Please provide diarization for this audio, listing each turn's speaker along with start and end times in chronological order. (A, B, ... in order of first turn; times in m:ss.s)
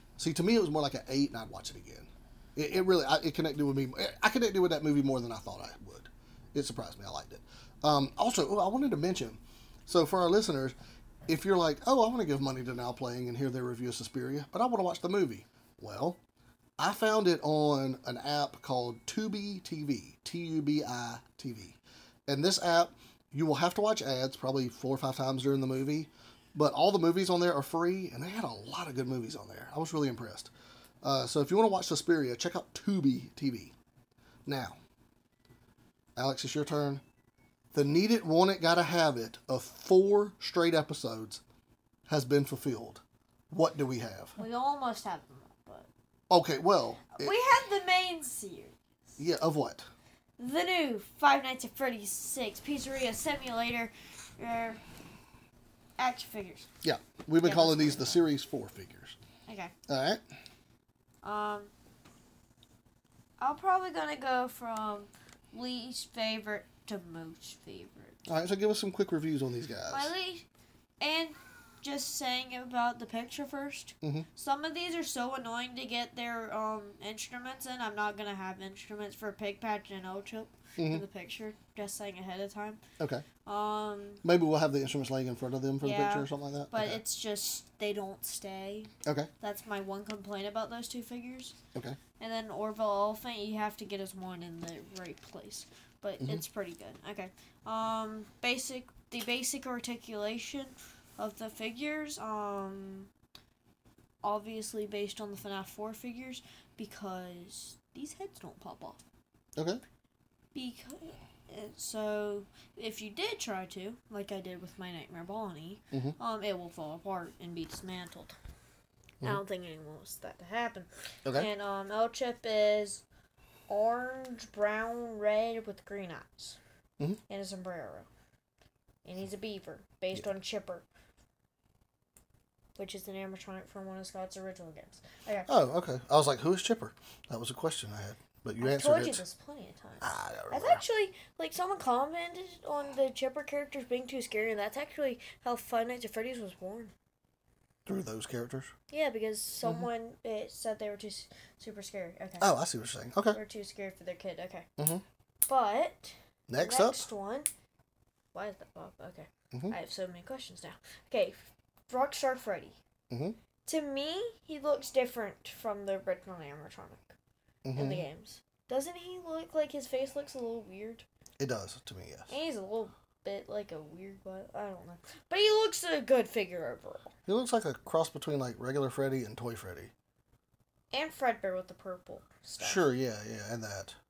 0:00.2-0:10.8 A
0:11.3-0:16.2 A
0:16.8-0:30.5 A
0:31.0-0:33.7 A
0:34.5-0:34.8 A
0:36.2-0:37.0 A
0:37.7-0:41.4 A
0:42.1-0:44.4 A
0:44.4-0:45.9 B
0:46.3-0:47.3 A
0:47.1-0:49.2 B
0:49.2-0:49.9 A
0:50.4-0:54.8 B
0:56.0-0:56.7 B
0:56.8-0:59.2 A
0:57.4-0:58.2 B
0:59.5-0:59.7 B
0:59.9-1:00.2 A
1:01.2-1:01.7 B
1:03.4-1:08.2 B
1:08.3-1:10.1 A
1:09.9-1:10.5 B
1:11.0-1:22.8 B
1:14.0-1:14.3 A
1:20.8-1:21.0 A
1:23.0-1:23.2 A
1:23.4-1:24.2 B
1:24.2-1:27.0 A
1:25.8-1:31.6 B
1:32.2-1:43.1 B
1:44.2-1:49.0 B
1:50.5-1:58.4 B
1:59.2-2:03.0 B
2:03.7-2:06.6 B
2:07.3-2:08.1 B
2:09.0-2:10.8 B
2:12.8-2:15.5 B
2:15.5-2:19.2 A
2:18.6-2:26.9 B
2:20.0-2:20.8 A
2:27.9-2:28.7 A
2:28.9-2:32.5 B
2:32.4-2:33.4 A
2:33.3-2:34.7 B
2:34.8-2:35.0 A
2:35.5-2:37.5 B
2:36.5-2:37.1 A
2:38.3-2:42.8 B
2:43.1-2:43.4 A
2:43.6-2:47.2 B
2:47.6-2:48.1 A
2:47.8-2:51.1 B
2:51.4-2:52.3 A
2:52.3-2:57.1 B
2:57.3-2:59.9 A
3:00.9-3:02.9 B
3:02.6-3:04.0 A